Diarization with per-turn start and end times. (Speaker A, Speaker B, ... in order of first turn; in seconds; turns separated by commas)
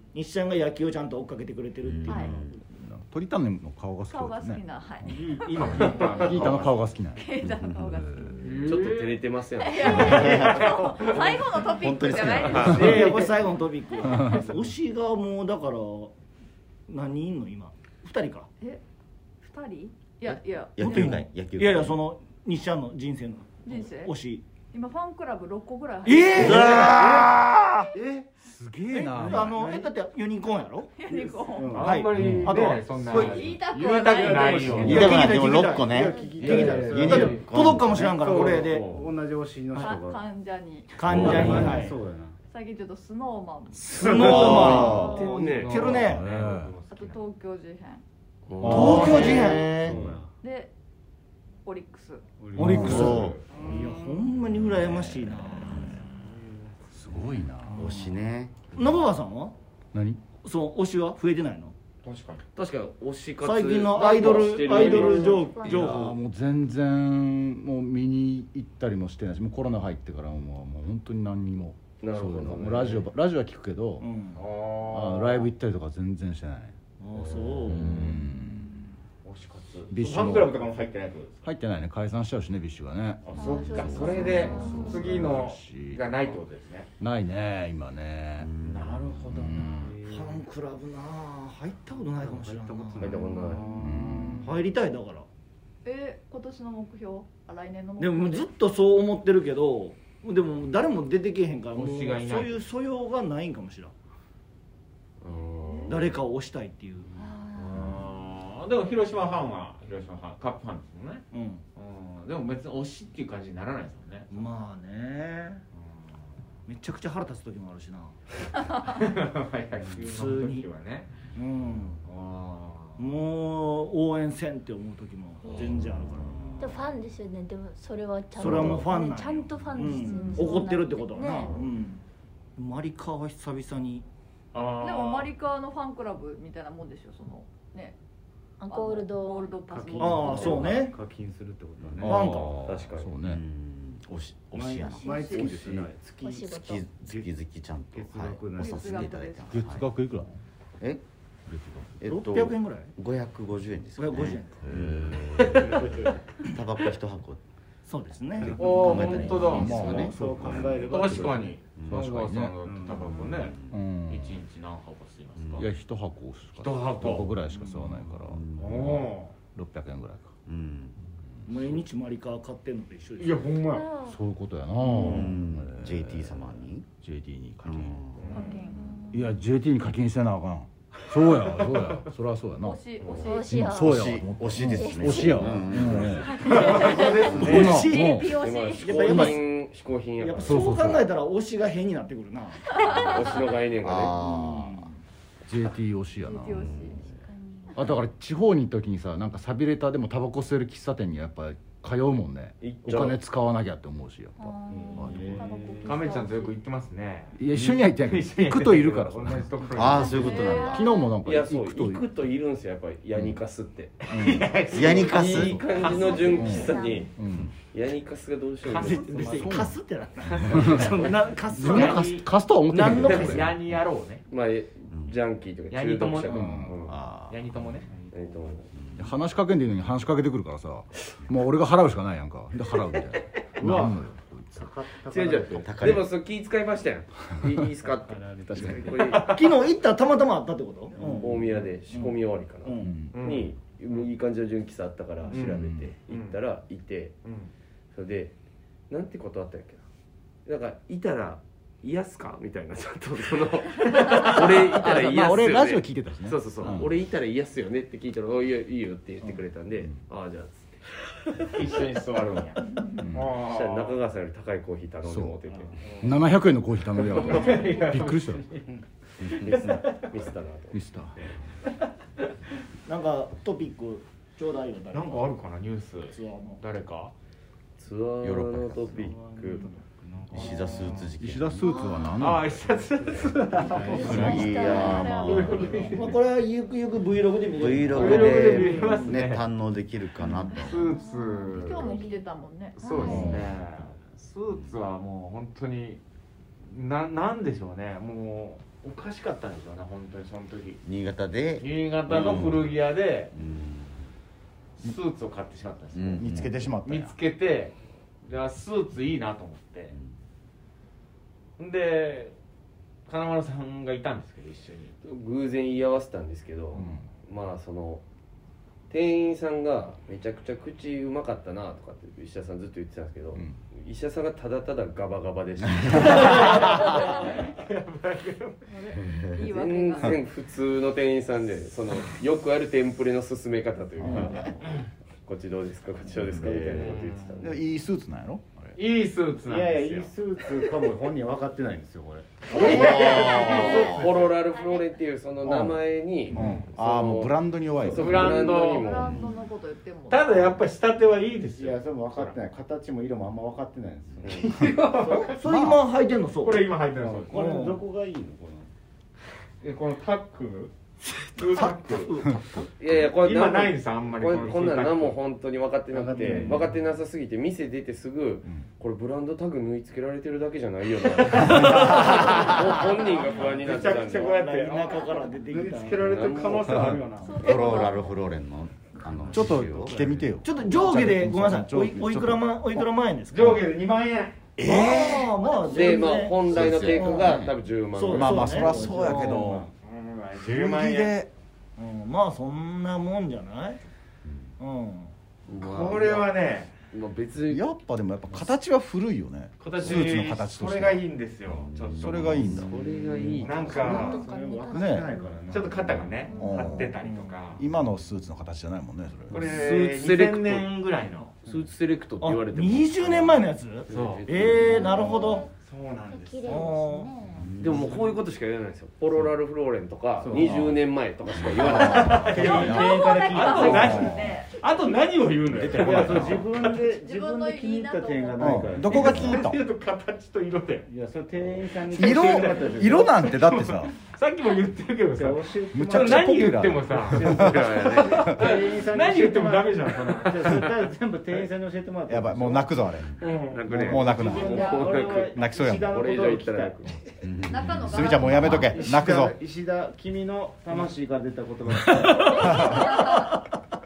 Speaker A: 0.1-2.5, Speaker B: 1.8-2.6, Speaker C: 2.0-2.4, Speaker D: 2.7-5.1, Speaker C: 4.1-6.2, Speaker E: 5.0-6.9, Speaker D: 5.7-7.3, Speaker C: 7.1-8.6, Speaker B: 7.4-8.2, Speaker D: 8.0-8.3, Speaker E: 8.4-9.2, Speaker F: 8.6-10.5, Speaker C: 9.6-13.1, Speaker B: 9.8-12.8, Speaker E: 10.0-11.3, Speaker E: 12.5-13.3, Speaker A: 12.6-16.1, Speaker D: 14.1-14.4, Speaker A: 16.9-18.5, Speaker C: 19.4-21.2, Speaker B: 20.3-22.0, Speaker A: 20.8-24.4, Speaker C: 23.6-24.1, Speaker C: 24.7-26.8, Speaker A: 26.0-27.9, Speaker G: 26.4-28.4, Speaker B: 26.4-27.3, Speaker D: 28.4-29.8, Speaker A: 28.9-31.2, Speaker G: 29.2-29.8, Speaker C: 31.0-31.9, Speaker G: 31.5-32.0, Speaker E: 31.7-35.3, Speaker A: 31.8-33.0, Speaker D: 32.1-32.6, Speaker G: 33.0-37.4, Speaker C: 33.1-35.1, Speaker B: 34.8-38.2, Speaker A: 34.8-38.9, Speaker E: 36.3-37.4, Speaker G: 37.9-40.2, Speaker E: 38.3-39.1, Speaker C: 39.8-41.6, Speaker A: 41.0-41.9, Speaker G: 41.0-42.4, Speaker F: 41.1-41.6, Speaker C: 42.5-44.1, Speaker A: 43.7-46.2, Speaker G: 43.9-45.0, Speaker E: 44.0-47.2, Speaker F: 44.1-46.0, Speaker B: 44.2-45.2, Speaker D: 46.0-46.7, Speaker C: 46.9-48.0, Speaker F: 48.5-50.1, Speaker E: 48.6-49.5, Speaker A: 48.6-49.9, Speaker G: 48.6-50.3, Speaker B: 48.6-50.0, Speaker C: 50.4-50.7, Speaker C: 51.6-52.2, Speaker G: 52.4-54.3, Speaker A: 52.5-55.9, Speaker D: 52.6-53.1, Speaker E: 52.8-53.4, Speaker B: 52.8-53.4, Speaker B: 55.7-56.0, Speaker D: 56.9-57.9, Speaker B: 57.8-58.7, Speaker A: 58.7-59.5, Speaker D: 59.9-60.2, Speaker A: 60.4-61.7, Speaker E: 62.0-62.4, Speaker F: 62.5-65.5, Speaker A: 63.4-66.2, Speaker E: 64.3-65.2, Speaker H: 64.8-65.9, Speaker D: 65.6-74.0, Speaker F: 72.0-73.0, Speaker A: 74.0-74.4, Speaker E: 74.3-75.5, Speaker D: 74.9-76.7, Speaker A: 77.0-78.0, Speaker D: 77.7-78.8, Speaker E: 79.2-81.5, Speaker D: 79.9-80.6, Speaker D: 81.4-86.0, Speaker E: 83.2-86.9, Speaker H: 83.3-85.2, Speaker B: 83.7-84.2, Speaker D: 87.0-88.5, Speaker B: 88.4-89.4, Speaker E: 88.6-89.9, Speaker D: 89.3-89.9, Speaker G: 89.7-90.4, Speaker A: 90.0-93.3, Speaker G: 92.1-94.3, Speaker F: 93.0-93.7, Speaker D: 93.8-94.5, Speaker A: 94.3-95.2, Speaker C: 95.8-98.5, Speaker A: 98.0-103.9, Speaker E: 101.7-102.6, Speaker F: 105.2-106.1, Speaker C: 105.5-106.0, Speaker A: 105.9-107.1, Speaker H: 107.2-107.8, Speaker E: 107.6-114.4, Speaker A: 111.3-111.6, Speaker A: 114.3-115.6, Speaker A: 116.7-118.1, Speaker E: 118.7-121.1, Speaker A: 119.9-120.7, Speaker A: 121.3-122.0, Speaker E: 122.0-123.0, Speaker A: 123.0-126.5, Speaker H: 126.6-131.6, Speaker A: 128.3-132.0, Speaker B: 128.4-128.8, Speaker C: 129.8-131.2, Speaker A: 132.6-134.0, Speaker E: 134.5-135.3, Speaker C: 134.8-137.9, Speaker H: 138.6-139.6, Speaker C: 138.7-140.7, Speaker G: 139.6-142.3, Speaker A: 140.0-140.9, Speaker B: 141.8-145.9, Speaker A: 142.0-142.6, Speaker F: 142.3-143.1, Speaker D: 142.9-143.4, Speaker G: 144.5-147.3, Speaker H: 144.9-145.5, Speaker C: 145.0-145.5, Speaker H: 146.1-146.9, Speaker B: 146.5-149.9, Speaker G: 147.9-149.1, Speaker C: 148.6-149.6, Speaker D: 149.4-150.4, Speaker D: 151.5-151.9, Speaker B: 152.0-157.4, Speaker A: 152.1-152.9, Speaker A: 154.0-154.6, Speaker D: 154.6-155.5, Speaker G: 155.7-156.1, Speaker A: 157.8-158.7, Speaker B: 158.4-162.0, Speaker E: 158.5-165.7, Speaker D: 159.4-160.1, Speaker G: 159.7-161.6, Speaker D: 161.9-162.5, Speaker G: 162.6-163.1, Speaker B: 162.9-163.8, Speaker D: 163.6-164.4, Speaker B: 165.3-165.7, Speaker D: 165.6-170.3, Speaker E: 166.6-167.4, Speaker B: 167.6-169.1, Speaker E: 168.6-169.4, Speaker B: 170.4-171.0, Speaker A: 171.4-173.5, Speaker E: 173.2-173.9, Speaker H: 173.7-174.2, Speaker D: 174.0-176.5, Speaker B: 174.8-176.9, Speaker D: 177.0-178.1, Speaker B: 177.6-178.4, Speaker C: 178.3-179.1, Speaker H: 178.3-179.3, Speaker D: 179.1-182.8, Speaker E: 181.4-182.1, Speaker C: 182.6-183.7, Speaker H: 183.1-185.6, Speaker D: 183.4-186.5, Speaker B: 183.7-186.5, Speaker C: 186.2-189.3, Speaker E: 186.3-187.8, Speaker H: 186.6-187.3, Speaker A: 186.8-189.6, Speaker B: 187.3-187.6, Speaker D: 187.3-188.4, Speaker F: 188.2-190.9, Speaker D: 189.1-189.3, Speaker A: 190.2-192.8, Speaker D: 190.4-191.0, Speaker F: 192.8-194.2, Speaker B: 193.8-194.9, Speaker A: 194.2-194.9, Speaker D: 195.5-196.8, Speaker C: 196.2-197.1, Speaker B: 196.5-197.1, Speaker H: 197.0-197.9, Speaker D: 197.7-205.4, Speaker F: 202.6-203.2, Speaker H: 204.4-205.1, Speaker G: 204.7-206.0, Speaker C: 204.7-206.6, Speaker E: 205.8-210.5, Speaker D: 207.3-209.9, Speaker B: 209.7-210.9, Speaker H: 210.0-210.9, Speaker C: 210.1-211.1, Speaker D: 210.6-212.1, Speaker F: 211.2-217.1, Speaker E: 214.1-216.5, Speaker D: 214.1-214.5, Speaker B: 214.7-215.6, Speaker H: 215.7-217.1, Speaker D: 216.3-217.5, Speaker F: 217.7-219.3, Speaker E: 218.6-219.6, Speaker A: 218.8-222.2, Speaker D: 219.3-219.7, Speaker E: 220.2-224.2, Speaker D: 220.5-220.8, Speaker D: 221.5-223.6, Speaker F: 222.9-223.5, Speaker F: 224.3-226.9, Speaker E: 225.7-227.9, Speaker D: 226.3-226.8, Speaker B: 226.9-227.4, Speaker G: 227.9-228.6, Speaker F: 228.1-228.7, Speaker D: 229.0-234.7, Speaker G: 233.6-234.0, Speaker G: 234.5-236.0, Speaker F: 235.1-239.4, Speaker B: 235.6-236.1, Speaker G: 237.8-239.2, Speaker E: 239.0-239.5, Speaker A: 239.2-241.3, Speaker G: 241.0-241.4, Speaker F: 241.2-247.2, Speaker A: 241.9-242.9, Speaker D: 242.8-243.2, Speaker E: 243.1-243.6, Speaker E: 245.3-246.4, Speaker E: 247.2-247.5, Speaker F: 247.9-248.3, Speaker F: 248.9-249.8, Speaker F: 250.4-261.5, Speaker E: 253.9-254.5, Speaker D: 254.3-256.9, Speaker E: 261.5-264.0, Speaker D: 263.0-263.3, Speaker F: 263.4-265.8, Speaker D: 265.0-265.4, Speaker D: 266.0-268.5, Speaker E: 266.9-268.7, Speaker B: 269.2-269.7, Speaker E: 269.3-270.1, Speaker F: 269.3-270.8, Speaker D: 270.7-271.1, Speaker A: 272.9-275.3, Speaker E: 274.9-277.1, Speaker A: 276.1-276.6, Speaker F: 277.8-279.7, Speaker B: 278.2-279.1, Speaker G: 278.9-281.1, Speaker B: 280.3-281.7, Speaker E: 280.4-281.0, Speaker D: 281.2-282.6, Speaker H: 281.6-282.2, Speaker E: 282.1-286.2, Speaker G: 283.1-284.4, Speaker H: 283.8-285.8, Speaker B: 283.9-285.8, Speaker C: 284.3-286.0, Speaker G: 285.6-285.9, Speaker A: 285.9-289.1, Speaker B: 287.5-290.9, Speaker E: 287.9-289.4, Speaker H: 290.4-292.3, Speaker E: 290.5-291.9, Speaker C: 291.5-293.3, Speaker E: 292.8-296.0, Speaker H: 292.8-293.5, Speaker E: 296.6-300.8, Speaker B: 300.8-302.7, Speaker E: 301.6-303.3, Speaker B: 303.3-304.0, Speaker E: 304.8-307.7, Speaker B: 305.9-306.6, Speaker D: 306.2-307.1, Speaker E: 308.2-309.9, Speaker E: 311.6-312.4, Speaker E: 313.1-314.9, Speaker F: 315.0-318.0, Speaker D: 316.7-317.0, Speaker F: 318.9-327.4, Speaker E: 326.1-328.6, Speaker C: 328.7-330.2, Speaker F: 329.4-334.6, Speaker B: 334.1-334.4, Speaker G: 334.1-334.4, Speaker F: 335.2-337.6, Speaker B: 336.3-337.0, Speaker E: 336.5-337.5, Speaker D: 337.4-338.8, Speaker E: 338.7-340.1, Speaker G: 339.4-342.6, Speaker E: 342.4-344.3, Speaker F: 342.5-349.2, Speaker B: 342.6-344.0, Speaker D: 345.4-345.8, Speaker D: 346.3-348.4, Speaker E: 346.3-346.7, Speaker E: 347.9-349.1, Speaker C: 348.4-350.6, Speaker E: 350.1-352.4, Speaker G: 351.6-354.4, Speaker E: 354.2-355.5, Speaker F: 354.2-354.5, Speaker A: 355.0-356.7, Speaker D: 355.4-355.8, Speaker E: 356.4-357.4, Speaker G: 357.0-358.7, Speaker A: 357.3-357.8, Speaker E: 359.6-360.7, Speaker E: 361.3-362.3, Speaker A: 361.4-362.3, Speaker F: 362.8-374.4, Speaker E: 363.0-365.2, Speaker G: 365.9-366.7, Speaker E: 366.3-366.7, Speaker E: 371.4-377.4, Speaker A: 373.8-376.2, Speaker G: 375.5-377.4, Speaker F: 376.0-377.0, Speaker C: 377.2-378.2, Speaker B: 377.4-380.3, Speaker D: 379.3-382.9, Speaker A: 380.4-383.6, Speaker E: 383.3-384.6, Speaker D: 384.6-385.4, Speaker A: 384.6-389.6, Speaker C: 385.4-386.2, Speaker F: 385.6-389.2, Speaker B: 386.4-387.6, Speaker D: 388.1-389.7, Speaker G: 388.5-389.7, Speaker E: 389.8-391.2, Speaker D: 390.4-391.3, Speaker A: 391.8-393.8, Speaker A: 394.6-395.1, Speaker F: 395.5-396.4, Speaker E: 395.5-396.7, Speaker F: 396.9-397.6, Speaker D: 397.5-401.0, Speaker E: 399.6-402.4, Speaker B: 401.5-402.7, Speaker D: 402.0-402.8, Speaker F: 402.4-404.1, Speaker G: 402.8-406.2, Speaker E: 403.4-404.2, Speaker H: 403.8-405.5, Speaker D: 404.7-405.1, Speaker E: 405.5-407.6, Speaker H: 406.2-406.9, Speaker D: 406.3-406.9, Speaker D: 407.5-409.4, Speaker E: 409.3-411.4, Speaker F: 409.3-410.7, Speaker F: 411.4-415.0, Speaker A: 412.2-415.5, Speaker E: 413.9-414.3, Speaker H: 414.6-415.5, Speaker E: 415.5-416.7, Speaker H: 416.1-417.5, Speaker A: 416.4-417.1, Speaker B: 417.4-418.0, Speaker F: 417.6-422.4, Speaker E: 420.2-420.7, Speaker E: 421.5-426.8, Speaker D: 421.6-422.9, Speaker G: 422.2-424.3, Speaker C: 422.4-424.5, Speaker F: 423.5-423.8, Speaker D: 423.8-424.1, Speaker G: 425.6-429.4, Speaker C: 426.7-428.6, Speaker D: 428.4-429.6, Speaker E: 428.8-430.9, Speaker G: 430.9-433.3, Speaker E: 431.9-440.8, Speaker D: 431.9-433.9, Speaker G: 435.1-442.8, Speaker D: 435.7-437.7, Speaker F: 437.2-438.5, Speaker D: 442.1-443.1, Speaker E: 443.2-443.8, Speaker F: 443.2-446.9, Speaker D: 443.7-444.6, Speaker G: 443.7-446.9, Speaker C: 444.2-445.1, Speaker D: 445.2-446.0, Speaker B: 447.2-448.8, Speaker C: 447.4-448.5, Speaker D: 447.9-449.4, Speaker G: 448.4-453.2, Speaker C: 452.2-453.3, Speaker D: 452.3-452.8